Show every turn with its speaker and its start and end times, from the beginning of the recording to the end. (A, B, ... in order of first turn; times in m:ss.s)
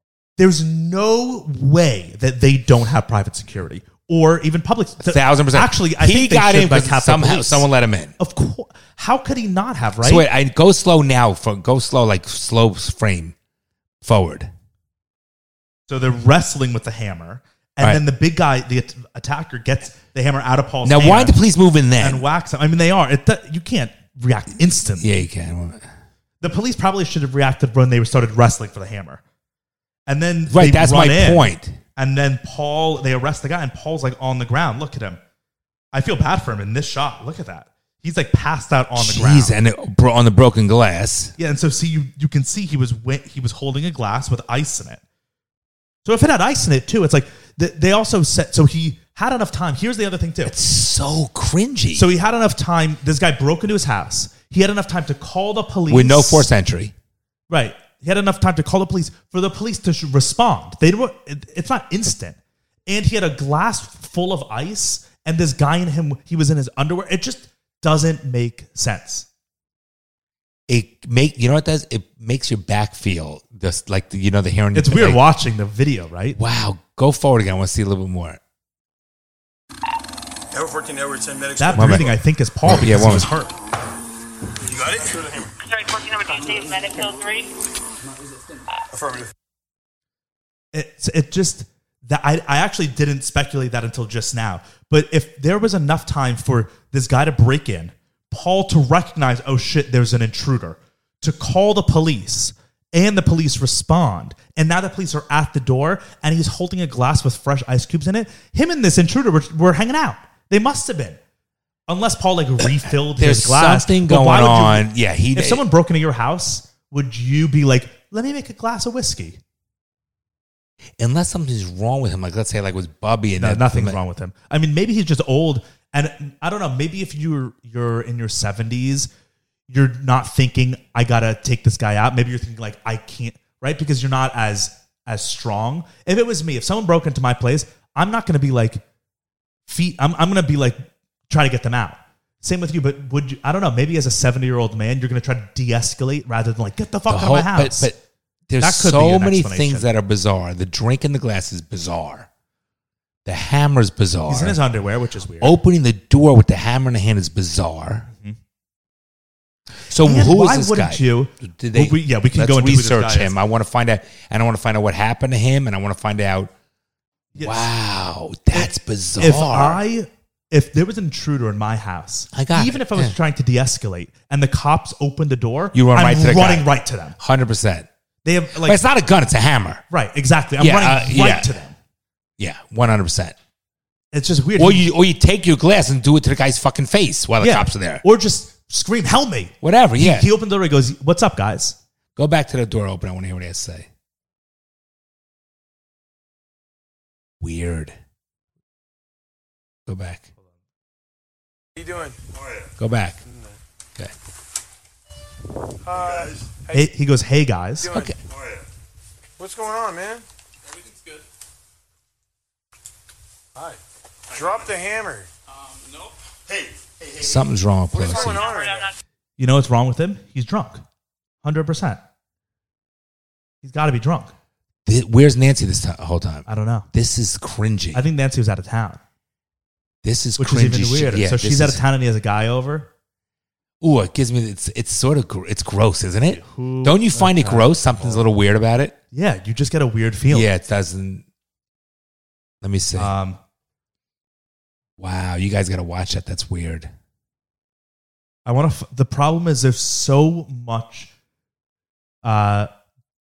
0:00.4-0:07.7 A
0:05.0-0:08.1 B
0:08.2-0:10.3 A
0:10.0-0:13.4 B
0:14.0-0:14.5 B
0:15.9-0:21.4 A
0:20.8-0:22.2 B
0:22.0-0:25.1 A
0:25.0-0:25.9 B
0:26.4-0:29.2 A
0:30.1-0:35.2 A
0:30.5-0:31.8 B
0:35.9-0:39.6 A
0:39.0-0:41.3 B
0:41.4-0:45.0 A
0:46.0-0:50.6 A
0:50.4-0:52.1 B
0:51.9-0:56.5 A
0:55.9-0:56.9 B
0:57.5-1:09.3 A
1:10.7-1:15.2 B
1:14.7-1:16.4 A
1:16.4-1:18.4 B
1:20.5-1:22.2 C
1:21.6-1:23.5 A
1:21.7-1:22.1 B
1:22.6-1:23.3 B
1:24.7-1:25.5 C
1:25.6-1:27.5 D
1:28.9-1:29.3 C
1:30.7-1:51.2 A
1:51.9-1:59.4 A
1:53.1-1:55.6 B
2:01.0-2:04.0 B
2:03.4-2:09.1 A
2:09.7-2:18.8 A
2:19.7-2:27.9 A
2:27.1-2:28.0 B
2:28.5-2:32.3 B
2:28.6-2:29.9 A
2:33.3-2:34.6 B
2:34.3-2:35.6 A
2:35.4-2:38.1 B
2:38.1-2:38.4 A
2:39.9-2:46.5 B
2:40.0-2:43.3 A
2:47.3-2:47.7 A
2:47.4-2:49.8 B
2:48.5-2:57.2 A
2:52.3-2:53.2 B
2:55.7-2:56.7 B
2:57.2-2:57.9 B
2:58.2-2:58.8 A
2:58.6-2:59.8 B
2:59.9-3:01.8 A
3:00.6-3:01.5 B
3:02.4-3:03.4 B
3:04.1-3:04.9 A
3:04.6-3:08.0 B
3:07.4-3:11.8 A
3:09.6-3:10.3 B
3:12.2-3:13.9 B
3:17.4-3:18.0 B
3:19.9-3:20.2 B
3:21.8-3:22.2 E
3:22.8-3:23.2 B
3:23.2-3:23.6 E
3:25.8-3:26.9 E
3:26.7-3:27.9 A
3:27.8-3:28.1 E
3:27.9-3:28.2 B
3:29.4-3:30.2 E
3:33.6-3:35.3 E
3:37.2-3:38.4 B
3:37.9-3:38.9 E
3:38.0-3:39.0 D
3:39.4-3:40.8 A
3:41.4-3:42.0 A
3:43.6-3:44.3 A
3:44.9-3:48.0 B
3:46.5-3:46.9 A
3:47.9-3:49.0 A
3:50.0-3:51.8 B
3:50.4-3:52.9 A
3:53.8-3:59.0 B
3:56.3-3:58.2 A
3:59.1-4:00.5 A
4:00.3-4:01.2 B
4:02.6-4:03.1 B
4:03.0-4:03.4 A
4:05.0-4:06.9 B
4:08.4-4:11.1 A
4:12.2-4:12.7 A